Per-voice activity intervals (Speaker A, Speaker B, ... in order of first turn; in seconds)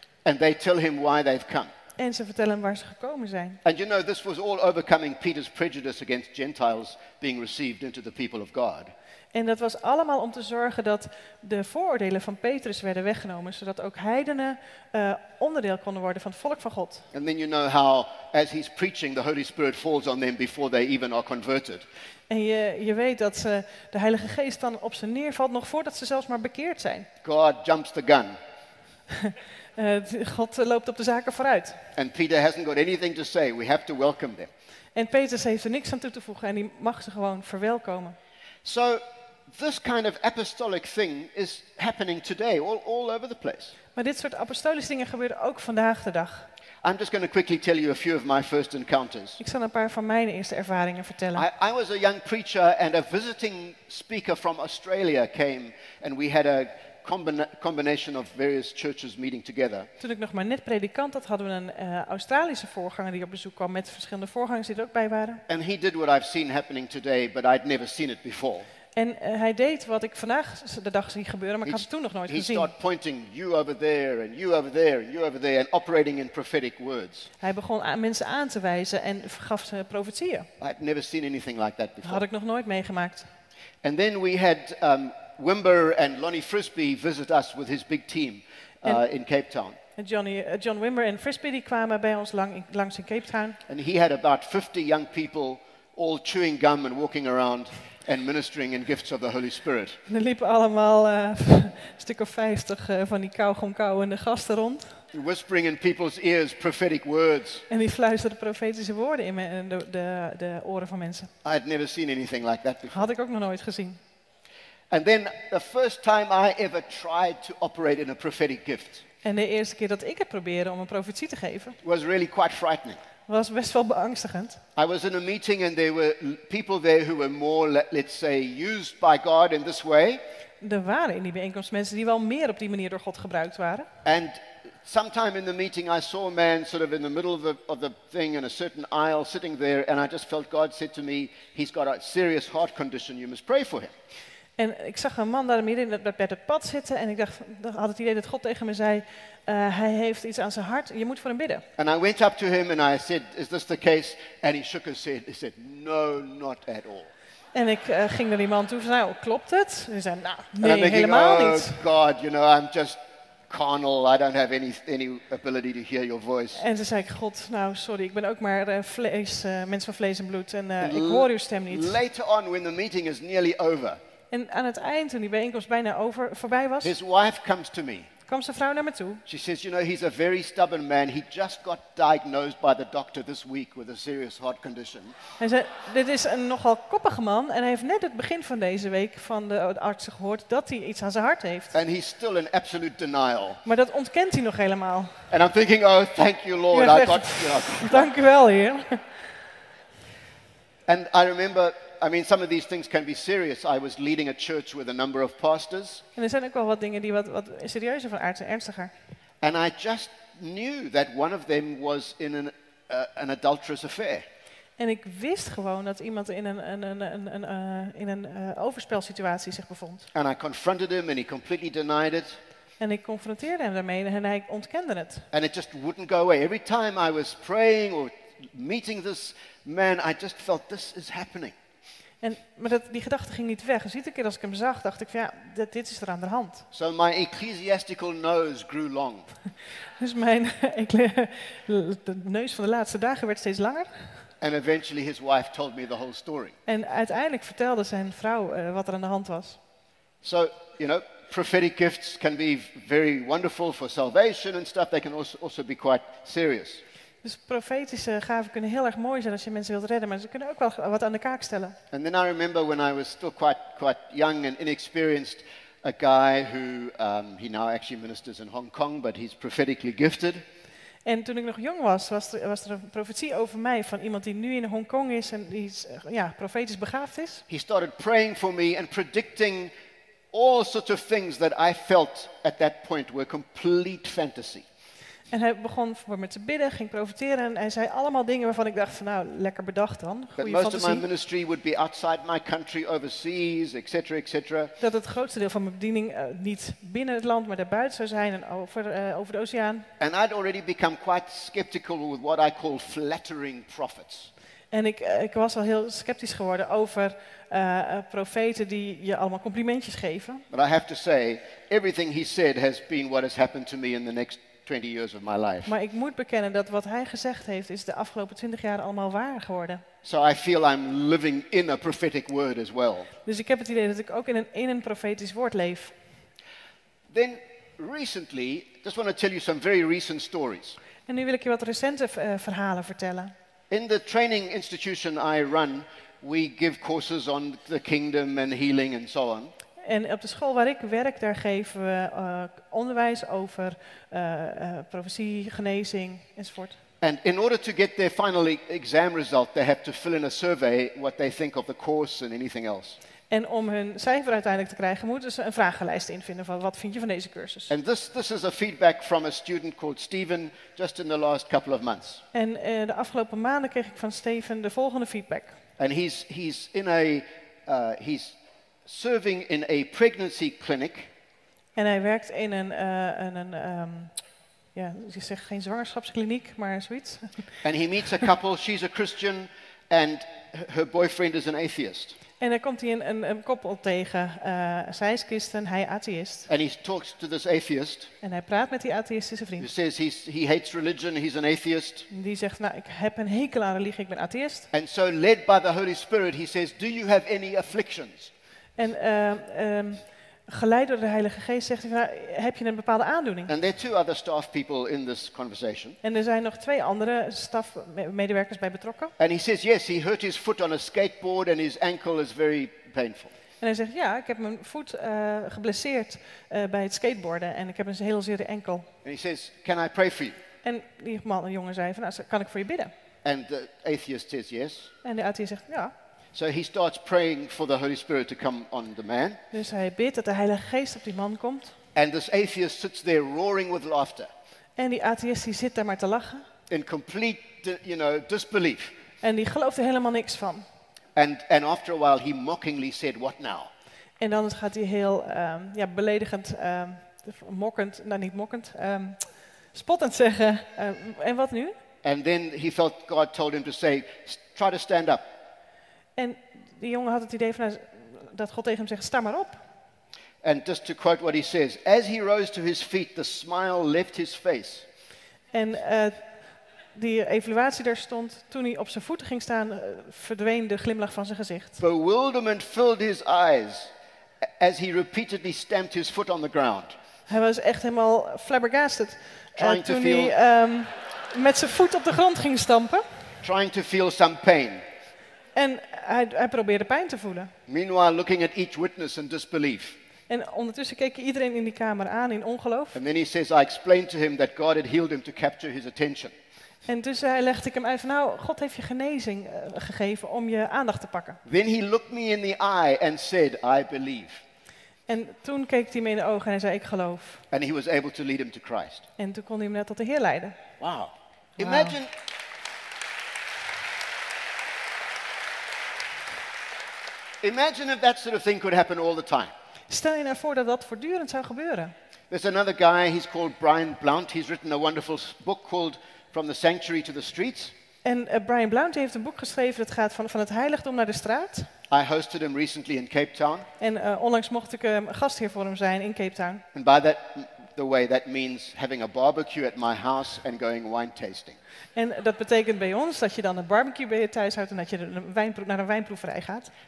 Speaker A: 0.2-1.7, 3.6-8.9, 17.1-21.9, 27.2-28.4, 31.9-34.5, 38.6-43.8, 46.8-49.4, 51.4-59.9, 65.5-68.7, 71.7-77.3, 80.6-82.2, 83.8-89.8, 93.7-100.0, 105.1-107.7, 111.4-113.1, 114.9-119.0, 121.8-123.0, 124.8-130.2, 134.0-143.9, 151.8-157.1, 160.6-166.6, 170.8-174.0, 176.8-178.1, 179.3-185.1, 191.7-193.6, 195.3-198.1, 200.9-206.0, 209.4-214.2, 220.1-222.4, 225.3-231.6, 236.7-239.3, 244.4-246.6, 250.2-256.8, 261.9-270.4, 277.5-279.7, 280.3-284.6, 290.4-294.7, 300.0-304.3, 310.5-315.7, 320.0-323.1, 327.1-330.8, 333.7-339.5, 347.0-353.0, 357.7-362.2, 365.8-371.1, 377.6-382.2, 386.5-388.1, 389.6-392.1, 394.7-398.3, 403.5-406.0, 409.2-413.3, 419.0-420.4, 423.2-424.9, 426.3-429.4, 431.9-434.3, 436.7-438.9, 441.2-443.7, 452.0-455.3, 460.4-464.9, 471.8-473.9, 474.6-477.0, 479.6-480.3, 483.4-484.8, 487.7-490.0, 492.9-496.3, 501.4-504.4, 507.5-509.1, 510.8-512.1, 517.4-519.5, 522.3-527.7, 531.9-533.7, 536.7-541.6
Speaker B: 2.0-3.6, 9.3-17.1, 22.3-27.1, 29.1-31.8, 35.0-38.2, 44.0-46.5, 49.4-51.5, 60.0-65.4, 69.0-72.7, 77.4-80.5, 82.0-83.3, 90.0-93.6, 100.1-105.0, 107.7-111.3, 112.9-114.0, 119.2-121.8, 123.3-124.6, 130.6-133.9, 144.6-151.7, 157.5-161.8, 166.6-172.0, 174.3-176.9, 178.3-179.2, 185.4-191.7, 193.7-195.3, 196.7-199.2, 206.2-208.9, 214.8-220.1, 222.8-225.3, 232.2-236.7, 240.0-244.3, 246.7-249.6, 257.2-261.8, 271.1-277.4, 285.3-291.1, 294.8-299.9, 304.7-310.4, 315.6-319.8, 323.2-325.9, 331.1-333.3, 339.8-346.8, 353.3-357.7, 362.3-365.6, 371.8-374.2, 374.7-377.6, 382.4-386.5, 388.2-389.7, 392.1-394.7, 398.8-403.5, 406.0-409.1, 413.6-418.9, 420.6-422.9, 425.0-425.9, 429.5-431.8, 434.8-436.4, 439.2-440.7, 444.2-451.8, 456.2-459.6, 465.5-466.3, 466.9-471.8, 477.3-483.3, 485.6-487.5, 490.3-493.0, 496.9-501.4, 505.1-507.4, 509.2-510.6, 511.6-512.0, 519.9-521.9, 528.0-531.7, 533.8-536.6, 542.0-546.7